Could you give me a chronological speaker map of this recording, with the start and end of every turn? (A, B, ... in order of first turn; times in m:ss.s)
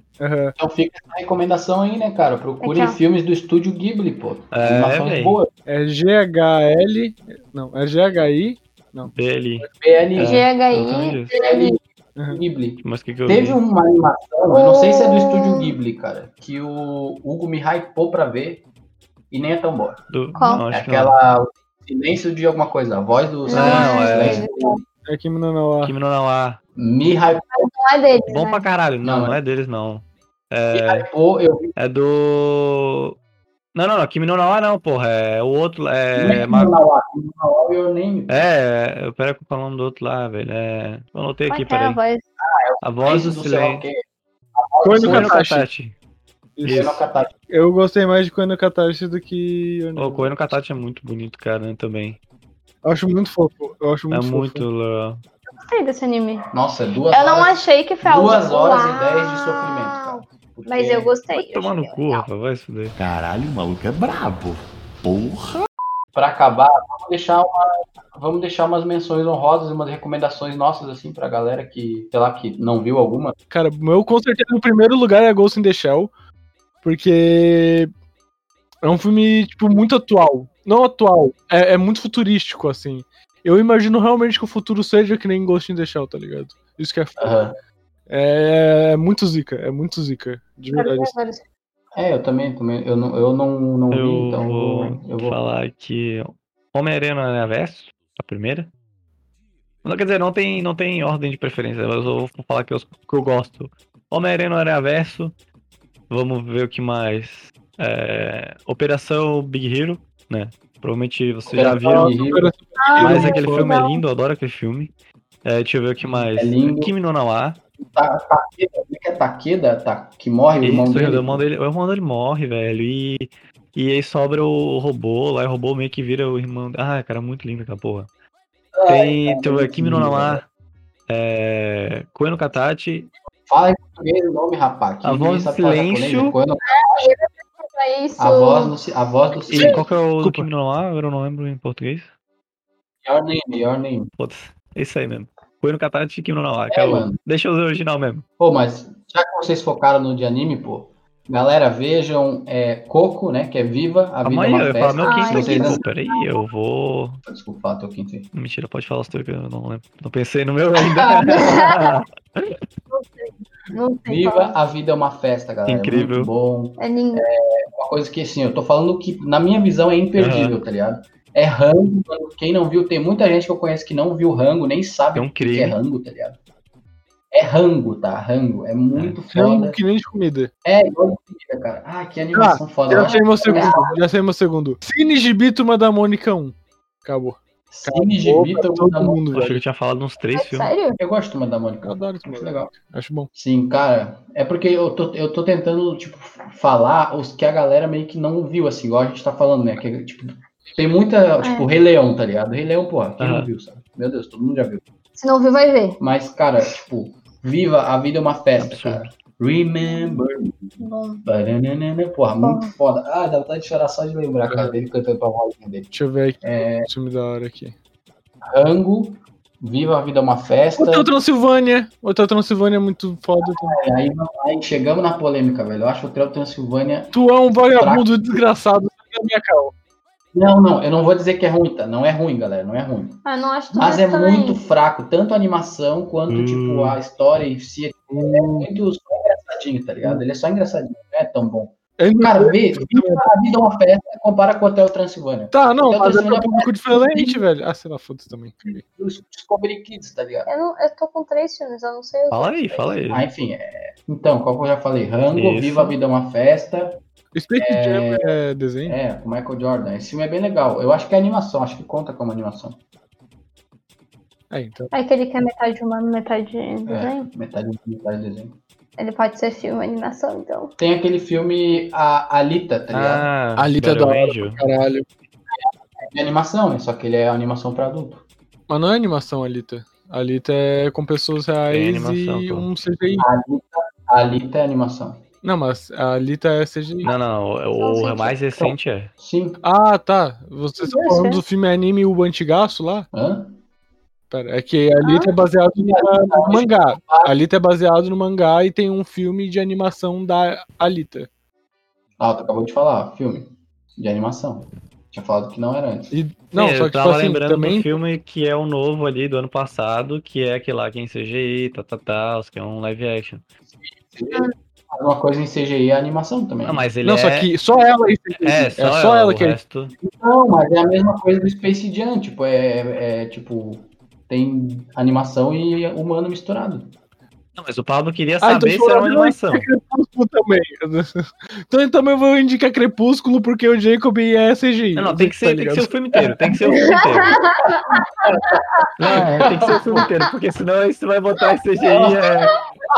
0:00.2-0:00.5 A
0:00.6-0:05.5 B
0:02.6-0:03.0 C
0:04.5-0:05.4 D
0:05.7-0:09.7 A
0:09.1-0:11.3 D
0:09.8-0:10.5 B
0:10.2-0:11.8 C
0:11.3-0:18.6 B
0:12.8-0:13.6 D
0:14.5-0:15.7 C
0:19.3-0:20.0 B
0:20.1-0:21.1 D
0:20.4-0:20.6 C
0:20.7-0:24.8 B
0:23.4-0:24.8 C
0:23.5-0:24.4 D
0:25.0-0:25.9 A
0:25.8-0:26.6 D
0:26.8-0:27.5 B
0:27.5-0:28.6 C
0:28.3-0:31.0 D
0:29.0-0:29.4 B
0:30.7-0:31.7 B
0:31.8-0:33.1 D
0:33.7-0:36.7 D
0:36.2-0:38.5 B
0:38.3-0:42.0 D
0:41.5-0:42.2 C
0:42.4-0:44.0 B
0:42.8-0:43.8 D
0:44.5-0:45.4 B
0:44.8-0:45.7 A
0:45.0-0:45.9 D
0:46.6-0:50.6 A
0:46.6-0:47.0 D
0:46.7-0:47.3 B
0:50.0-0:52.2 D
0:52.8-0:54.6 A
0:54.1-0:55.2 D
0:55.5-0:56.4 C
0:56.5-1:01.1 B
0:57.1-1:02.3 C
1:01.3-1:02.9 D
1:03.0-1:05.6 E
1:06.1-1:13.4 B
1:13.5-1:16.1 A
1:16.8-1:17.9 A
1:18.8-1:27.4 A
1:27.2-1:27.5 B
1:28.1-1:31.1 A
1:30.7-1:31.4 C
1:31.9-1:35.4 B
1:33.9-1:38.7 D
1:39.8-1:45.3 D
1:46.1-1:52.2 D
1:51.4-1:52.5 B
1:51.8-1:53.7 A
1:52.8-1:54.0 C
1:53.0-1:54.9 D
1:55.4-1:57.6 D
1:56.0-1:56.3 A
1:56.4-1:56.9 B
1:57.8-2:01.4 B
2:00.6-2:08.1 D
2:08.7-2:10.4 B
2:08.9-2:10.4 D
2:11.1-2:13.1 D
2:13.5-2:17.1 B
2:15.0-2:16.4 D
2:16.6-2:18.7 C
2:18.2-2:19.8 B
2:19.5-2:20.5 A
2:19.5-2:22.1 D
2:23.0-2:24.1 B
2:24.2-2:28.2 D
2:26.7-2:27.2 B
2:28.4-2:35.8 B
2:34.2-2:37.2 D
2:35.0-2:36.4 C
2:37.3-2:38.3 B
2:38.3-2:42.6 D
2:41.0-2:41.9 C
2:42.9-2:44.5 C
2:44.1-2:56.4 B
2:45.7-2:46.3 D
2:46.8-2:47.2 C
2:50.2-2:50.6 D
2:55.1-2:55.8 D
2:57.3-2:59.8 B
2:59.3-3:00.5 A
3:00.6-3:03.9 B
3:02.3-3:09.6 A
3:07.7-3:09.3 B
3:09.3-3:10.7 D
3:10.3-3:11.0 C
3:11.0-3:12.7 B
3:11.8-3:13.3 A
3:13.3-3:24.8 B
3:21.4-3:21.7 C
3:23.2-3:23.5 D
3:25.2-3:26.0 C
3:26.0-3:30.7 B
3:28.6-3:29.1 D
3:29.8-3:30.2 C
3:30.8-3:31.2 C
3:31.2-3:36.9 B
3:32.4-3:32.7 C
3:34.5-3:34.7 A
3:35.9-3:37.7 A
3:38.5-3:41.1 B
3:40.8-3:43.8 A
3:43.6-3:47.1 B
3:47.1-3:49.7 A
3:47.8-3:48.1 B
3:50.3-3:53.2 B
3:53.2-3:54.6 C
3:53.7-4:07.4 B
3:56.3-3:57.0 D
3:58.1-3:58.7 A
4:02.0-4:03.3 A
4:05.5-4:08.8 A
4:08.9-4:10.5 B
4:10.5-4:13.0 C
4:12.3-4:13.3 D
4:13.1-4:17.0 B
4:15.3-4:15.9 D
4:17.3-4:19.0 A
4:17.6-4:18.3 B
4:18.9-4:22.8 B
4:24.5-4:24.9 A
4:24.9-4:27.3 C
4:26.9-4:28.6 B
4:29.0-4:30.7 C
4:30.8-4:33.3 B
4:32.9-4:34.6 D
4:33.6-4:35.1 A
4:35.5-4:38.2 B
4:38.7-4:43.2 A
4:41.7-4:42.7 D
4:43.2-4:45.2 B
4:45.4-4:47.1 A
4:47.0-4:49.1 D
4:47.8-4:48.4 C
4:49.2-4:49.6 B
4:49.6-4:53.1 A
4:50.8-4:51.4 C
4:53.1-4:53.6 B
4:54.3-5:01.3 A
4:55.0-4:55.3 C
4:55.8-4:57.3 B
5:02.2-5:06.1 B
5:06.1-5:08.0 A
5:06.5-5:13.4 D
5:13.8-5:16.8 B
5:16.6-5:17.5 D
5:17.0-5:19.6 A
5:18.4-5:19.9 D
5:20.0-5:26.9 B
5:27.5-5:29.6 D
5:28.4-5:36.0 A
5:34.9-5:37.4 D
5:37.0-5:38.9 C
5:38.2-5:40.1 B
5:39.0-5:42.5 D
5:41.9-5:42.2 B